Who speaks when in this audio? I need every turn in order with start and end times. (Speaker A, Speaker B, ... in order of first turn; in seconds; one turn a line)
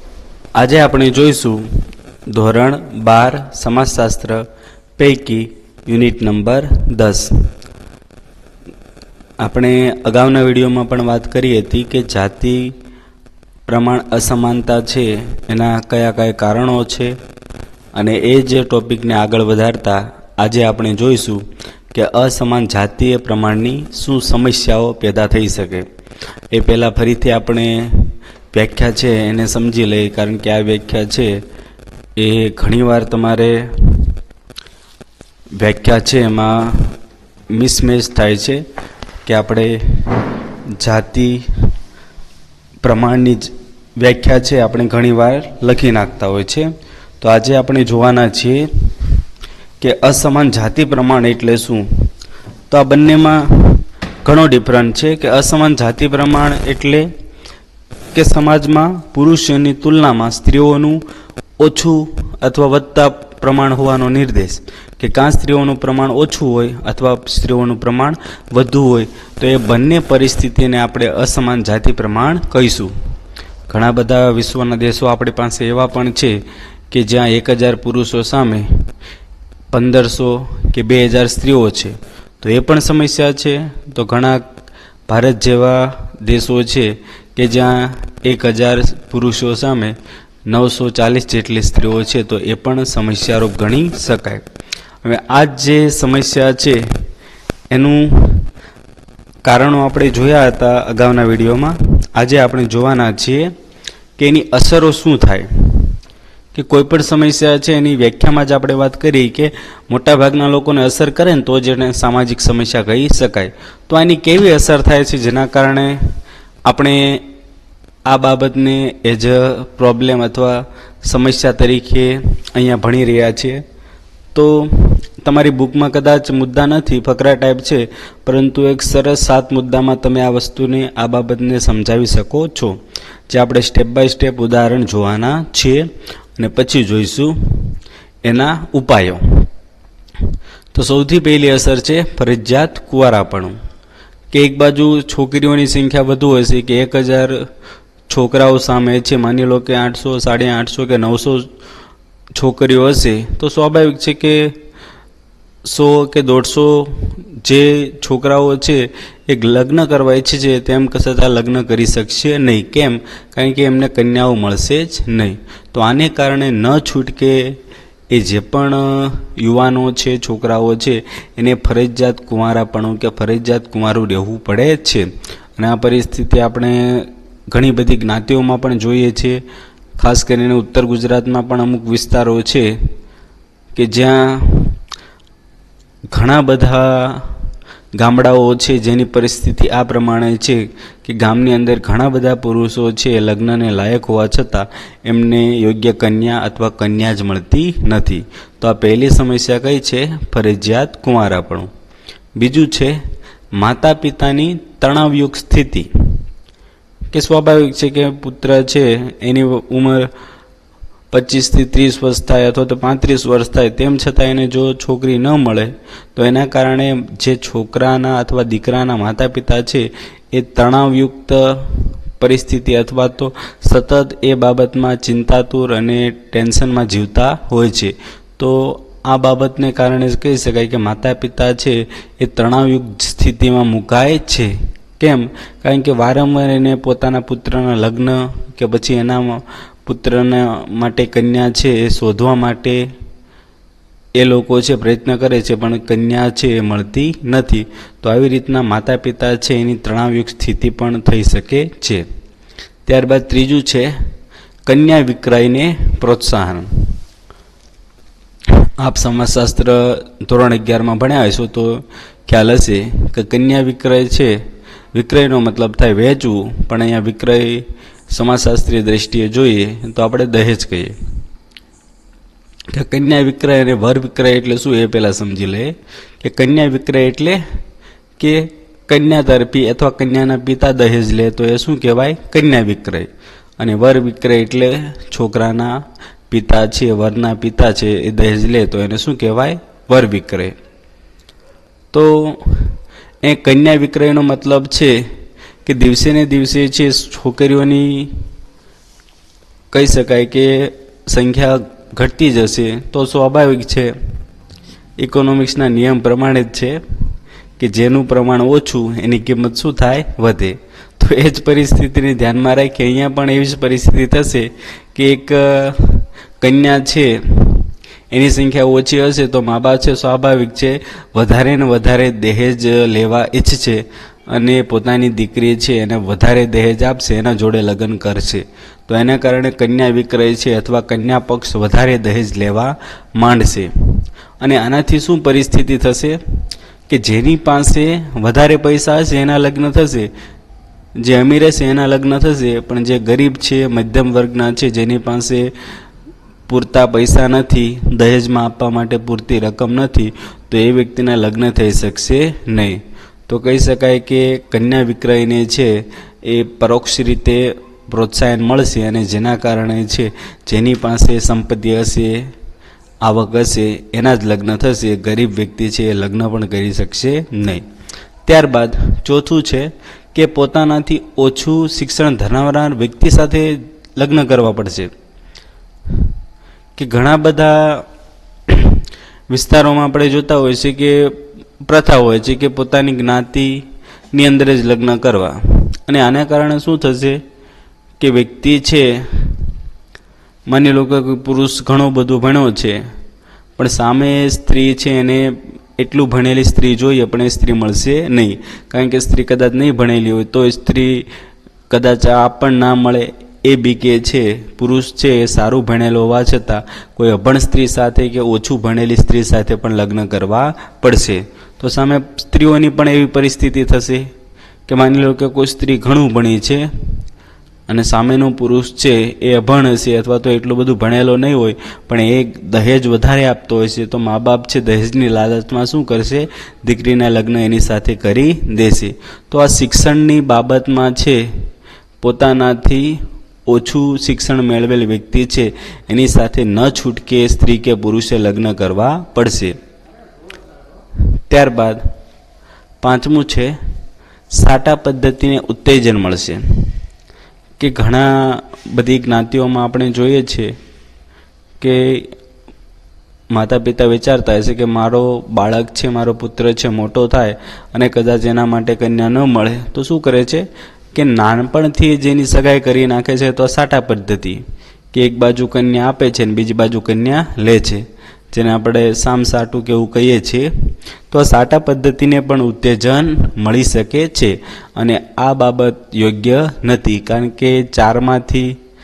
Speaker A: 0.6-4.5
Speaker A: 5.0-7.3
Speaker A: 9.4-12.8
Speaker A: 13.7-17.2
Speaker A: 17.9-25.9
Speaker A: 26.5-31.4
Speaker A: 32.2-34.1
Speaker A: 35.6-37.0
Speaker A: 37.5-38.6
Speaker A: 39.2-40.2
Speaker A: 40.8-41.6
Speaker A: 42.8-46.7
Speaker A: 47.2-49.1
Speaker A: 49.8-52.1
Speaker A: 52.7-57.1
Speaker A: 58.1-61.0
Speaker A: 61.6-72.9
Speaker A: 73.7-76.4
Speaker A: 76.9-78.7
Speaker A: 79.7-84.5
Speaker A: 85.1-90.0
Speaker A: 90.5-94.5
Speaker A: 95.0-97.0
Speaker A: 97.7-98.5
Speaker A: 99.4-103.5
Speaker A: 104.2-106.0
Speaker A: 106.5-116.1
Speaker A: 116.7-117.3
Speaker A: 118.1-123.6
Speaker A: 124.3-139.5
Speaker A: 140.7-143.6
Speaker A: 144.3-147.5
Speaker A: 148.1-151.5
Speaker A: 152.3-154.6
Speaker A: 155.7-167.6
Speaker A: 168.1-179.4
Speaker A: 180.0-182.7
Speaker A: 183.7-184.8
Speaker A: 186.1-187.4
Speaker A: 188.0-201.7
Speaker A: 202.4-203.0
Speaker A: 203.6-205.9
Speaker A: 207.1-210.1
Speaker A: 211.1-242.9
Speaker A: 244.2-252.1
Speaker A: 252.9-254.0
Speaker A: 254.7-256.9
Speaker A: 258.8-264.4
Speaker A: 264.9-271.0
Speaker A: 272.7-277.4
Speaker A: 278.2-290.6
Speaker A: 291.9-295.1
Speaker A: 295.6-298.2
Speaker A: 299.7-303.9
Speaker A: 305.0-306.8
Speaker A: 307.6-336.2
Speaker A: 336.9-340.1
Speaker A: 341.0-345.5
Speaker A: 346.5-362.3
Speaker A: 363.0-367.6
Speaker A: 368.3-374.9
Speaker A: 376.8-377.9
Speaker A: 378.5-387.2
Speaker A: 388.0-389.5
Speaker A: 390.5-392.8
Speaker A: 393.6-401.1
Speaker A: 401.7-414.1
Speaker A: 414.7-416.7
Speaker A: 417.7-431.4
Speaker A: 432.0-439.6
Speaker A: 441.3-441.9
Speaker A: 442.8-443.6
Speaker A: 444.3-446.8
Speaker A: 447.6-450.6
Speaker A: 451.6-452.1
Speaker A: 453.3-470.5
Speaker A: 471.1-478.6